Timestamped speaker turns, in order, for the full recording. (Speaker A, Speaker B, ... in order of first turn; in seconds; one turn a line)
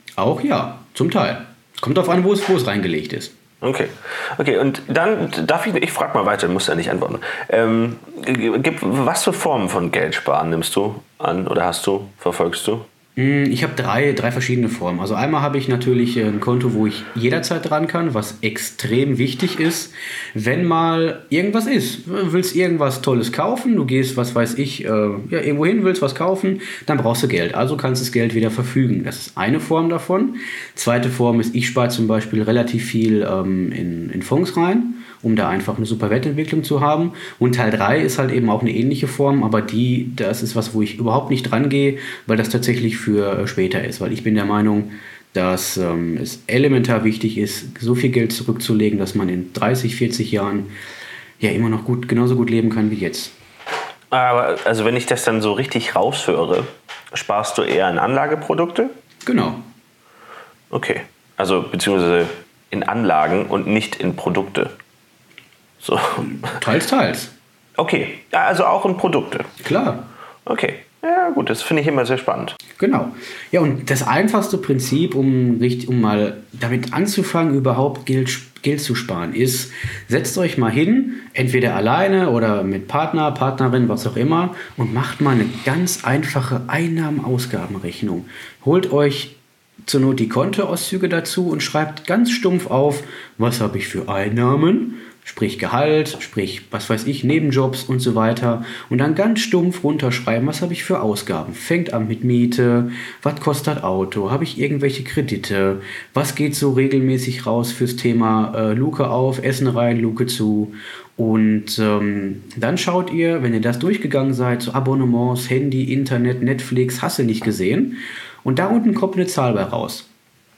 Speaker A: 0.2-3.3
Speaker B: 3.6-12.9
Speaker A: 13.2-50.7
Speaker A: 51.4-53.4
Speaker B: 54.1-58.9
Speaker A: 59.2-59.6
Speaker B: 60.7-64.8
Speaker B: 65.8-66.6
Speaker A: 66.3-67.3
Speaker B: 67.8-69.5
Speaker A: 69.6-70.1
Speaker B: 70.5-72.6
Speaker A: 72.8-120.1